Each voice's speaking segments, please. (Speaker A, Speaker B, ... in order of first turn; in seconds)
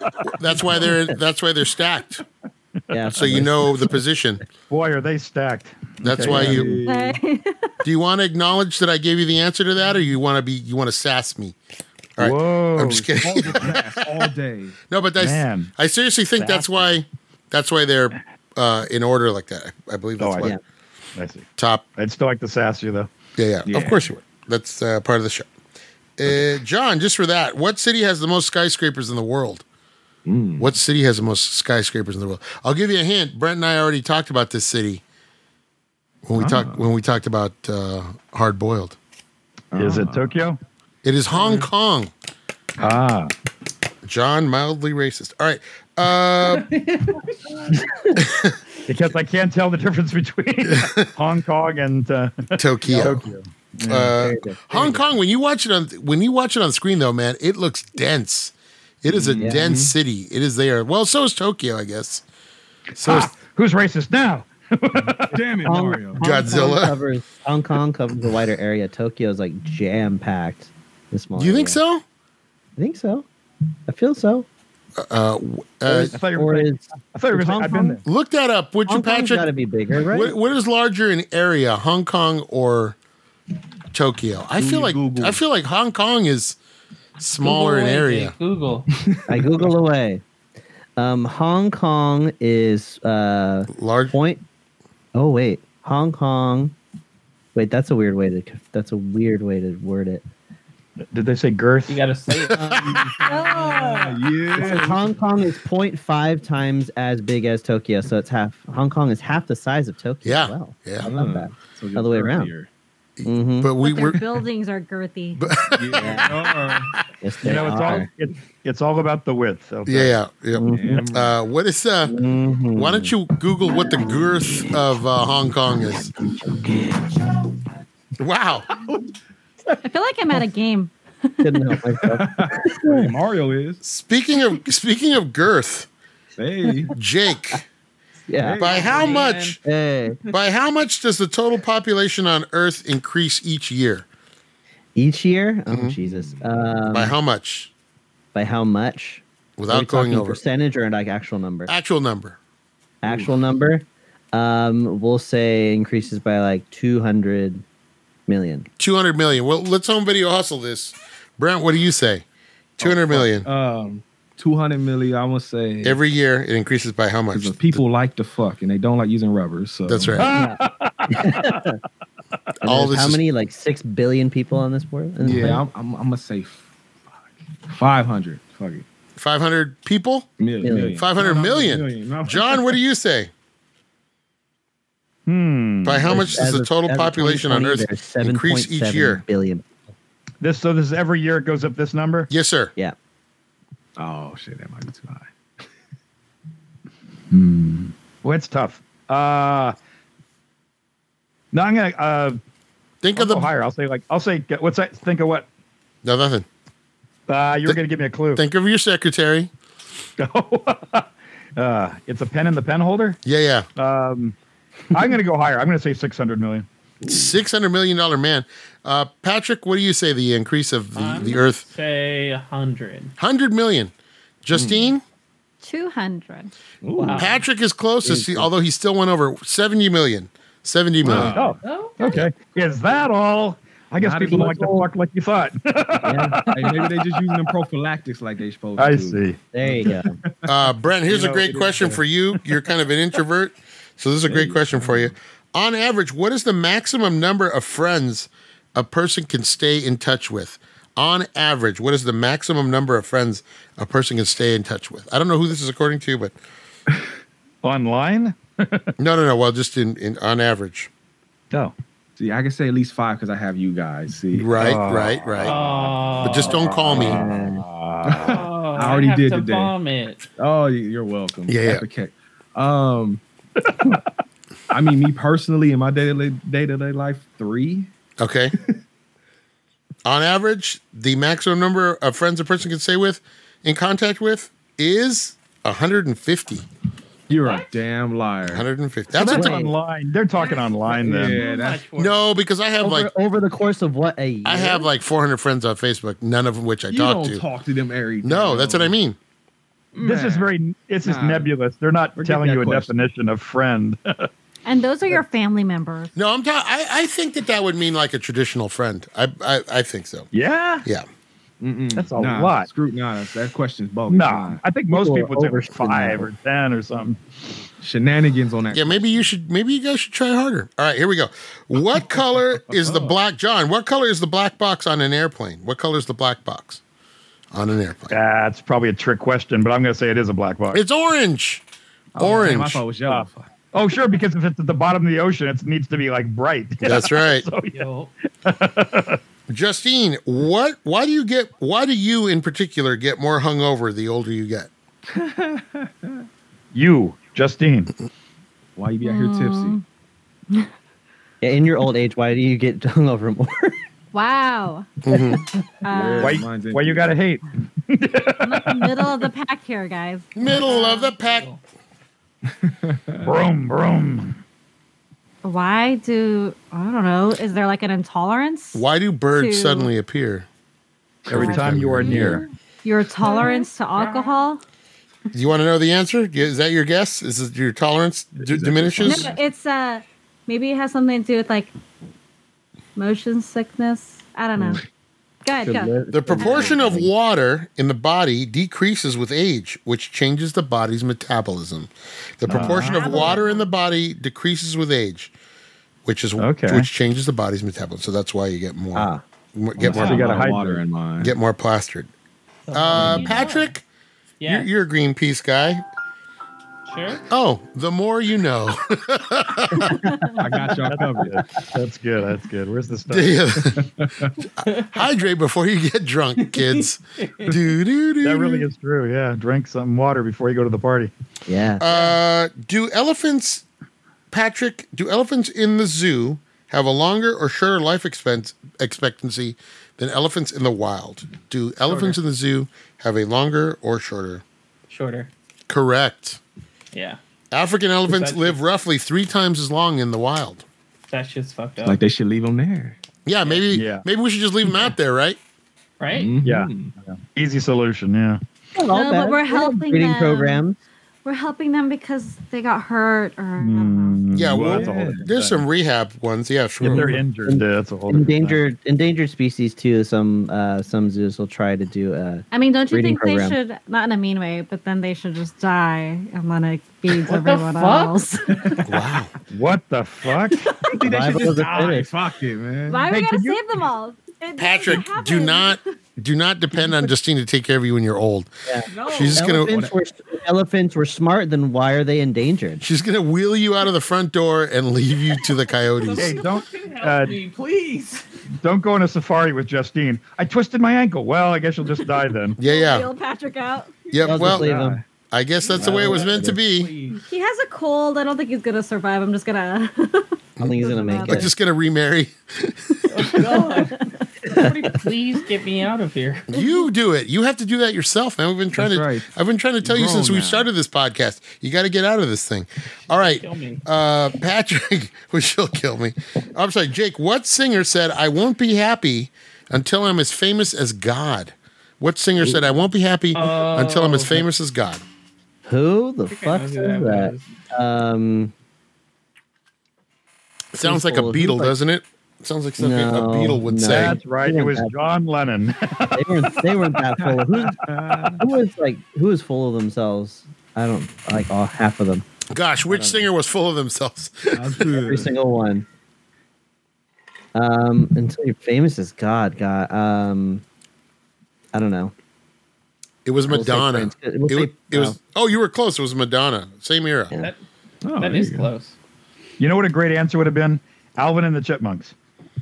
Speaker A: 0.2-2.2, 3.1-4.4, 6.0-6.7, 7.8-11.6, 12.2-14.3, 14.9-20.5, 21.6-21.9, 23.4-25.5, 26.2-29.6, 30.6-35.0, 36.2-39.0, 41.0-42.1, 44.0-46.7, 48.2-48.6, 50.6-51.1, 52.6-53.2, 53.9-62.2, 63.0-63.3, 66.2-67.0, 71.3-72.0, 75.0-76.1, 78.0-79.5, 80.0-83.0, 83.9-86.5, 87.2-88.3, 93.7-94.1, 110.2-111.1, 113.2-114.4, 115.4-117.0, 119.9-122.1, 122.8-126.1, 128.2-128.7, 133.8-135.9, 136.9-137.6, 138.6-139.6, 140.3-144.0, 145.7-145.9, 146.9-147.7, 149.6-150.4, 151.7-152.4, 158.8-162.2, 162.8-163.5, 165.8-167.8, 169.9-170.3, 172.6-173.2, 179.2-180.3, 181.0-183.3, 185.8-189.2, 192.3-192.7, 203.0-203.5, 206.0-206.4, 208.3-209.5, 213.2-213.7, 217.0-221.6, 223.2-223.9, 224.4-225.0, 227.2-231.4, 240.4-256.3, 259.0-260.9, 264.3-265.5, 266.2-267.2, 271.5-271.8, 278.2-278.6, 280.0-286.6, 288.4-289.6, 291.9-293.1, 294.4-297.4, 298.2-299.2, 306.1-310.3, 318.7-326.8, 327.5-328.2, 330.7-331.6, 332.2-332.8, 336.8-337.5, 339.5-344.7, 355.0-355.4, 360.4-361.5, 368.7-370.4, 371.5-372.2, 375.3-379.3, 386.1-395.3, 396.0-400.4, 401.2-402.1, 402.7-403.8, 404.4-405.8, 407.3-410.0, 413.1-413.8, 414.8-418.7, 421.8-423.6, 424.3-434.4, 435.7-436.4, 437.5-440.6, 443.2-445.4, 454.3-457.2, 468.9-469.3, 474.6-479.8, 482.8-486.4, 492.6-493.1, 494.1-494.7, 495.3-496.9, 500.6-503.0, 506.5-525.0, 530.7-534.1, 542.5-544.9, 553.2-557.3
Speaker B: 2.9-3.7, 54.2-54.6, 59.4-59.6, 65.6-71.8, 72.8-73.2, 73.9-74.5, 75.9-78.0, 78.9-80.3, 89.3-90.2, 91.0-94.4, 95.1-96.7, 97.5-100.2, 102.5-103.1, 104.5-112.5, 113.2-113.7, 115.9-116.3, 117.2-118.1, 120.5-121.0, 122.0-123.1, 126.3-127.0, 131.4-133.1, 138.3-138.7, 139.6-140.2, 144.9-147.2, 148.3-151.7, 153.0-157.6, 158.3-158.7, 170.3-171.8, 172.6-175.6, 180.6-181.0, 186.1-189.6, 228.0-228.5, 234.2-234.9, 236.0-236.4, 239.5-240.1, 266.9-267.6, 289.2-289.7, 292.8-294.9, 314.9-316.3, 351.4-353.8, 385.6-387.1, 398.9-399.2, 421.5-421.8, 448.7-450.8, 456.8-463.6, 471.0-472.1, 478.6-482.8, 494.2-495.0, 500.6-501.5, 504.4-504.7, 525.6-528.5, 530.8-531.7, 532.8-534.9, 536.1-537.8, 538.4-542.2, 544.9-545.9, 547.5-550.6, 551.7-552.1, 553.5-555.2
Speaker C: 4.7-6.8, 12.2-13.6, 15.2-15.7, 16.4-16.9, 20.2-20.5, 21.1-23.1, 39.8-40.6, 42.8-43.3, 48.9-54.2, 63.0-65.4, 75.9-78.0, 101.1-102.0, 117.4-120.1, 170.2-171.7, 185.3-186.4, 190.4-192.3, 197.3-199.8, 201.5-202.4, 203.2-205.5, 207.3-208.4, 210.2-213.2, 213.8-214.3, 214.9-216.7, 231.1-237.3, 238.8-239.4, 241.1-242.0, 257.6-258.9, 264.6-268.4, 273.6-274.0, 289.1-291.4, 300.0-304.3, 310.3-310.9, 311.9-312.7, 314.1-317.2, 328.1-330.8, 332.2-337.9, 338.4-339.2, 346.7-347.9, 356.2-359.3, 363.2-364.4, 371.3-372.4, 392.5-393.3, 396.4-396.9, 399.8-400.8, 410.8-413.4, 418.2-421.1, 443.7-444.0, 446.4-448.4, 453.6-455.6, 456.8-458.6, 469.5-470.7, 473.1-473.6, 486.1-487.4, 488.6-492.6, 533.9-536.7, 559.6-562.1
Speaker D: 6.2-7.2, 13.2-14.8, 23.6-24.1, 30.2-30.7, 36.3-36.8, 39.7-40.3, 42.8-43.0, 59.0-60.0, 65.3-66.2, 84.6-85.4, 89.0-89.7, 103.7-105.1, 111.0-112.7, 115.7-116.9, 120.7-121.4, 128.8-129.1, 132.0-133.8, 136.4-136.9, 138.4-139.2, 146.0-146.6, 162.8-166.0, 167.3-170.2, 175.2-176.7, 177.7-178.8, 180.4-182.7, 194.0-195.3, 217.0-217.3, 224.5-224.9, 226.8-227.4, 231.0-231.6, 234.0-234.6, 236.5-240.4, 244.3-245.1, 262.2-264.5, 268.0-269.7, 270.4-273.2, 274.7-277.9, 287.3-288.7, 290.9-291.9, 296.9-298.9, 299.9-300.5, 301.0-301.5, 302.2-302.9, 311.6-314.6, 317.8-319.3, 322.6-323.2, 332.1-333.5, 345.1-346.2, 348.8-349.8, 355.9-357.1, 362.4-363.3, 371.2-372.2, 378.4-379.4, 399.8-401.3, 403.0-403.2, 410.4-411.4, 413.6-414.3, 441.8-443.0, 446.1-446.9, 454.5-455.3, 468.6-468.9, 470.9-473.2, 494.3-495.0, 495.8-496.5, 508.8-509.3, 509.8-510.7, 537.2-538.4, 542.9-543.2, 544.5-545.3, 558.0-558.7
Speaker E: 6.8-7.7, 103.3-104.7, 113.8-115.5, 129.8-130.9, 225.6-226.5, 304.6-306.1, 349.0-349.8, 354.1-354.9, 355.8-356.4, 358.4-361.1, 365.4-369.9, 372.0-374.6, 379.0-381.7, 382.9-384.8, 385.4-386.8, 393.1-393.4, 448.9-450.6, 451.2-454.2, 462.5-468.8, 472.9-475.8, 492.6-494.1, 497.2-501.5, 503.4-504.2
Speaker F: 41.4-41.7, 46.4-47.4, 87.4-88.9, 101.9-103.9, 138.7-139.6, 220.9-223.1, 227.0-227.3, 231.6-233.0, 265.4-266.6, 268.2-270.2, 287.4-287.7, 290.3-292.2, 337.7-338.1, 360.5-361.6, 373.2-374.4, 392.6-393.6, 402.7-403.7, 404.4-404.7, 406.9-407.2, 414.6-415.0, 416.4-417.5, 421.9-422.2, 431.9-432.1, 434.9-435.3, 436.9-437.2, 438.1-438.6, 441.1-442.0, 446.0-446.3, 467.2-468.2, 478.9-479.5, 485.9-488.2, 495.6-497.2, 503.1-506.6, 513.1-513.8, 523.3-524.5, 526.3-527.5, 558.2-559.0